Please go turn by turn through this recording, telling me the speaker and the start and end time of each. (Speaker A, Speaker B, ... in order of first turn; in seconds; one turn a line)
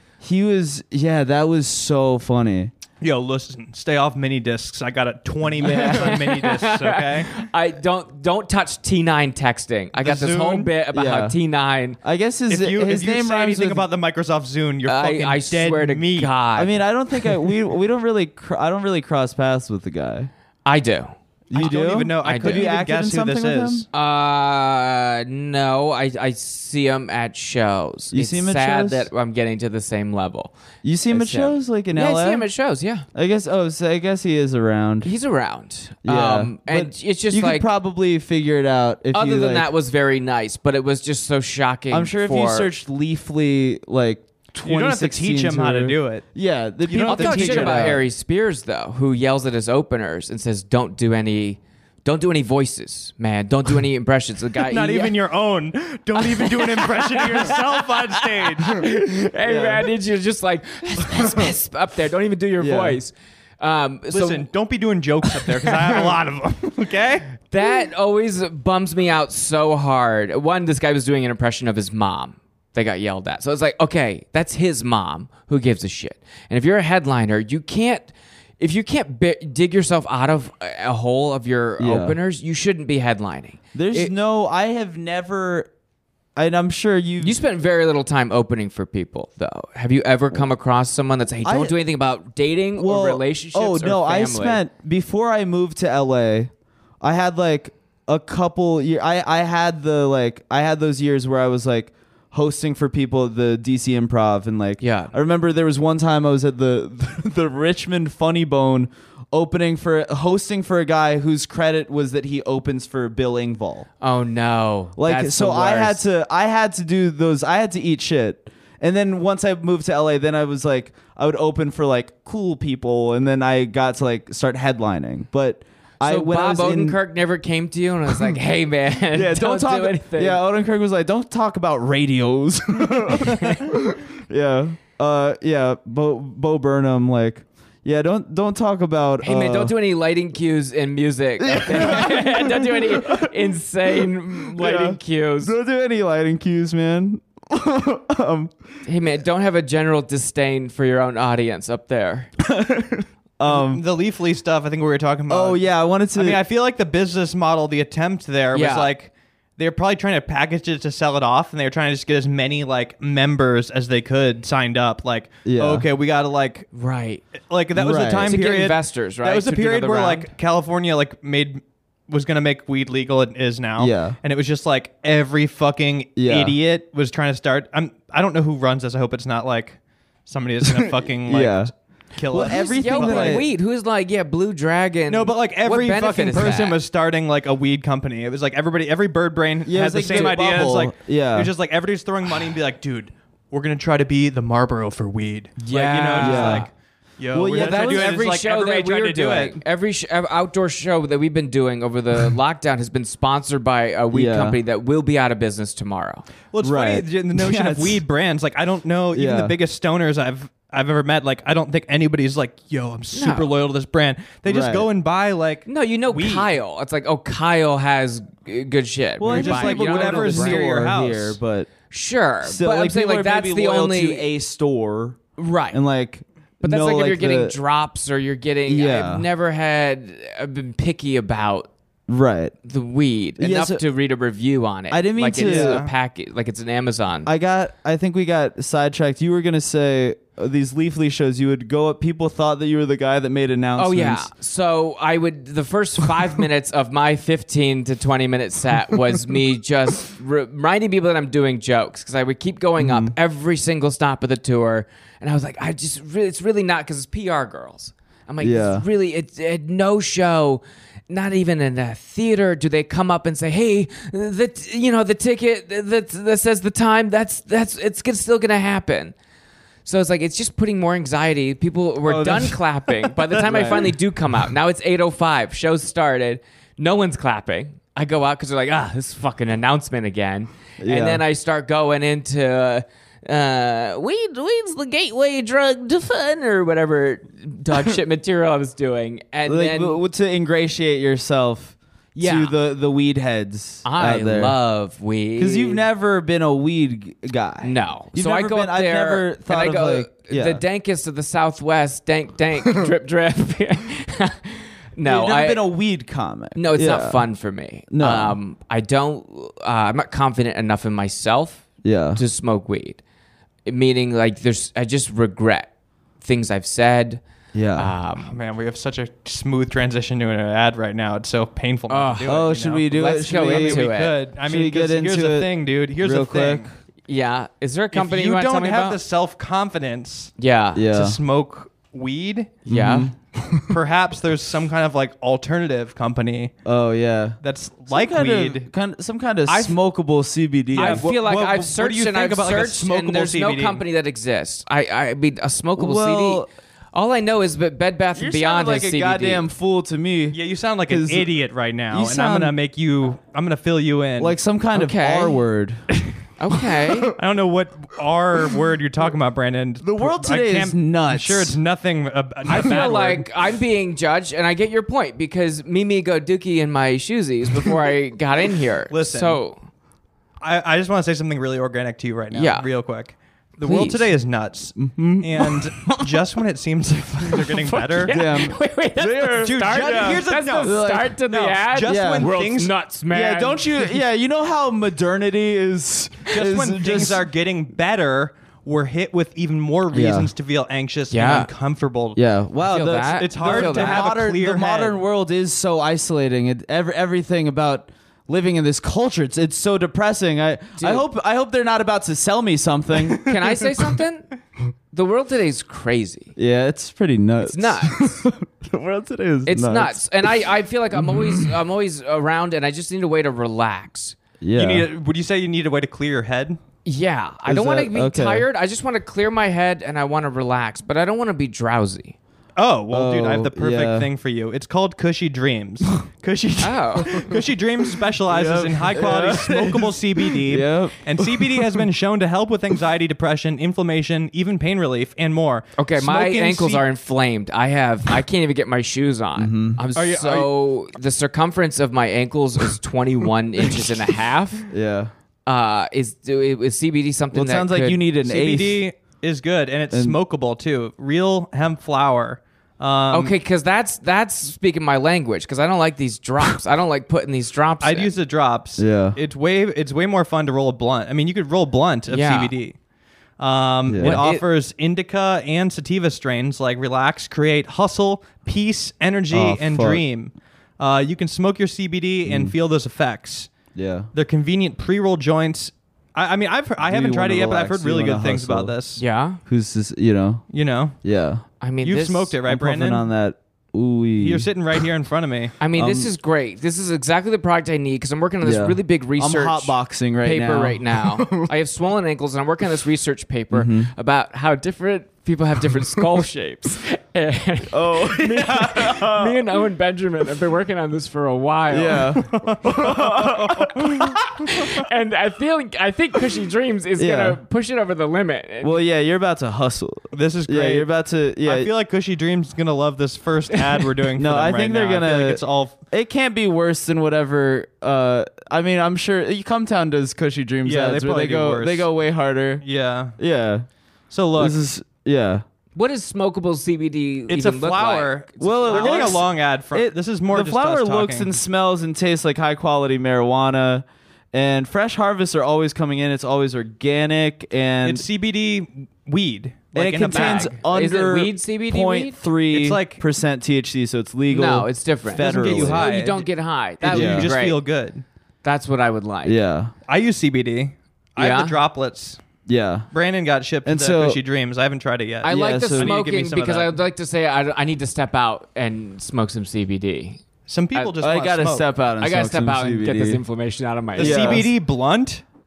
Speaker A: 0.2-2.7
Speaker B: 3.0-7.4
Speaker A: 5.6-6.3
Speaker C: 5.6-12.0
Speaker B: 10.0-10.7
Speaker A: 10.9-11.3
Speaker A: 12.0-13.8
Speaker B: 12.5-16.3
Speaker C: 14.8-16.8
Speaker A: 16.6-20.3
Speaker C: 20.6-22.7
Speaker A: 21.5-23.9
Speaker B: 21.5-23.9
Speaker C: 23.9-30.5
Speaker A: 28.1-29.1
Speaker A: 30.8-32.5
Speaker C: 31.1-33.0
Speaker A: 33.1-35.1
Speaker C: 35.0-37.7
Speaker A: 36.0-39.7
Speaker C: 39.1-42.7
Speaker A: 41.9-48.0
Speaker B: 44.6-46.3
Speaker B: 46.8-48.0
Speaker C: 47.0-55.2
Speaker B: 54.6-58.8
Speaker C: 56.2-58.0
Speaker C: 58.6-64.5
Speaker A: 59.4-59.9
Speaker A: 62.6-63.0
Speaker B: 64.1-67.3
Speaker C: 67.5-84.1
Speaker A: 81.8-82.2
Speaker A: 83.7-85.7
Speaker A: 86.3-87.4
Speaker C: 87.2-94.6
Speaker A: 91.4-91.7
Speaker A: 92.8-113.9
Speaker C: 104.8-105.1
Speaker C: 114.0-116.0
Speaker A: 115.0-127.0
Speaker C: 126.0-130.4
Speaker A: 129.1-139.7
Speaker C: 139.2-145.5
Speaker A: 141.4-143.3
Speaker A: 144.5-148.5
Speaker C: 148.8-152.3
Speaker A: 152.4-153.8
Speaker B: 153.5-166.7
Speaker A: 155.3-156.4
Speaker C: 158.5-158.9
Speaker A: 165.4-165.9
Speaker C: 166.7-167.2
Speaker B: 167.5-183.4
Speaker A: 167.7-168.3
Speaker C: 168.2-170.3
Speaker A: 173.8-174.2
Speaker A: 176.2-176.6
Speaker A: 180.6-181.7
Speaker A: 182.3-183.5
Speaker C: 182.4-186.8
Speaker B: 185.1-199.6
Speaker A: 189.7-191.5
Speaker C: 195.6-196.7
Speaker A: 196.2-196.7
Speaker A: 197.3-198.2
Speaker C: 197.5-206.2
Speaker A: 204.1-204.6
Speaker B: 206.5-216.5
Speaker A: 206.6-208.0
Speaker A: 209.1-209.6
Speaker C: 213.1-213.5
Speaker A: 214.4-214.9
Speaker C: 215.7-220.7
Speaker A: 219.2-221.7
Speaker B: 219.3-221.4
Speaker C: 221.9-224.3
Speaker A: 222.4-225.2
Speaker C: 225.4-225.8
Speaker A: 225.7-227.6
Speaker C: 226.6-231.7
Speaker A: 228.7-229.2
Speaker A: 232.1-232.5
Speaker C: 232.6-237.3
Speaker A: 233.4-233.8
Speaker A: 234.9-235.8
Speaker B: 235.4-235.9
Speaker A: 237.2-244.3
Speaker C: 243.8-269.1
Speaker A: 252.8-253.1
Speaker A: 258.4-258.8
Speaker C: 269.8-290.0
Speaker A: 272.1-272.5
Speaker A: 273.3-273.9
Speaker A: 280.8-281.2
Speaker A: 289.4-294.6
Speaker C: 292.1-292.5
Speaker C: 293.8-295.8
Speaker A: 295.4-300.6
Speaker C: 297.6-305.6
Speaker A: 305.0-307.2
Speaker C: 306.5-313.0
Speaker A: 307.9-308.4
Speaker A: 311.8-312.2
Speaker C: 313.6-317.2
Speaker A: 317.5-317.9
Speaker C: 317.8-318.3
Speaker B: 318.2-326.7
Speaker C: 321.9-324.1
Speaker A: 322.2-323.9
Speaker A: 324.4-326.7
Speaker C: 327.1-329.0
Speaker B: 327.9-330.3
Speaker C: 330.4-330.8
Speaker A: 330.7-331.2
Speaker B: 330.9-332.6
Speaker C: 332.7-333.1
Speaker A: 332.7-333.7
Speaker B: 333.6-336.5
Speaker A: 336.6-337.4
Speaker B: 337.4-338.7
Speaker A: 337.9-341.1
Speaker C: 339.5-339.7
Speaker C: 340.7-349.5
Speaker B: 340.7-343.8
Speaker A: 345.8-346.5
Speaker A: 348.1-351.3
Speaker B: 350.3-354.4
Speaker A: 351.9-352.5
Speaker A: 354.2-355.9
Speaker C: 354.7-355.4
Speaker C: 356.4-357.1
Speaker B: 357.1-363.3
Speaker A: 359.8-361.6
Speaker C: 362.5-369.6
Speaker B: 368.9-369.4
Speaker B: 370.4-378.2
Speaker C: 372.3-372.7
Speaker C: 373.6-374.1
Speaker A: 374.8-375.5
Speaker C: 377.3-383.9
Speaker A: 378.1-381.1
Speaker B: 379.3-382.8
Speaker A: 381.9-382.3
Speaker A: 383.1-387.2
Speaker B: 386.3-392.2
Speaker A: 389.9-390.3
Speaker C: 391.1-391.5
Speaker A: 392.1-403.3
Speaker C: 392.7-394.1
Speaker B: 393.0-395.0
Speaker C: 400.8-401.0
Speaker C: 403.2-404.3
Speaker C: 404.9-406.3
Speaker A: 406.4-410.0
Speaker C: 407.4-408.2
Speaker C: 409.4-414.2
Speaker A: 410.9-411.5
Speaker A: 414.4-414.9
Speaker B: 414.6-416.6
Speaker C: 416.8-422.1
Speaker A: 417.5-418.4
Speaker B: 422.6-436.9
Speaker A: 422.9-424.1
Speaker C: 426.6-427.3
Speaker A: 428.3-431.8
Speaker C: 435.8-444.7
Speaker A: 439.4-439.8
Speaker B: 439.9-440.5
Speaker A: 444.7-445.1
Speaker C: 445.4-448.0
Speaker A: 447.3-448.8
Speaker B: 448.2-453.3
Speaker A: 449.9-450.2
Speaker C: 453.1-458.1
Speaker B: 457.8-462.8
Speaker A: 458.8-459.2
Speaker C: 462.1-462.5
Speaker B: 463.4-473.6
Speaker A: 463.9-464.2
Speaker C: 464.0-464.4
Speaker A: 469.3-470.0
Speaker A: 472.2-472.5
Speaker A: 473.7-474.1
Speaker B: 474.1-479.0
Speaker A: 476.8-478.7
Speaker C: 479.0-479.4
Speaker A: 479.4-480.4
Speaker B: 480.5-481.0
Speaker A: 481.0-481.4
Speaker C: 481.6-482.4
Speaker B: 481.8-483.1
Speaker A: 482.4-484.5
Speaker B: 484.2-485.6
Speaker C: 485.6-502.1
Speaker A: 485.7-486.1
Speaker A: 488.4-491.5
Speaker A: 493.5-493.9
Speaker A: 497.7-499.4
Speaker A: 501.7-504.2
Speaker B: 502.2-504.2
Speaker C: 504.5-508.7
Speaker A: 507.0-507.4
Speaker A: 508.6-511.7
Speaker B: 510.1-515.8
Speaker A: 514.1-522.6
Speaker B: 520.6-521.9
Speaker B: 522.6-523.2
Speaker A: 523.1-523.7
Speaker B: 524.1-524.6
Speaker A: 524.3-525.4
Speaker C: 525.7-529.2
Speaker B: 527.3-531.4
Speaker A: 528.4-538.0
Speaker B: 537.8-540.6
Speaker A: 539.7-545.9
Speaker C: 540.0-542.2
Speaker B: 542.5-543.0
Speaker C: 544.3-547.6
Speaker B: 545.1-546.3
Speaker B: 546.8-548.0
Speaker A: 546.9-547.3
Speaker C: 548.4-549.4
Speaker A: 549.2-549.7
Speaker B: 549.9-552.2
Speaker C: 551.2-551.5
Speaker A: 552.5-552.9
Speaker B: 552.9-556.8
Speaker A: 553.6-554.2
Speaker C: 555.2-560.2
Speaker A: 555.2-555.9
Speaker B: 560.5-561.7
Speaker A: 561.0-563.2
Speaker C: 562.0-564.5
Speaker B: 564.0-565.2
Speaker A: 564.0-564.5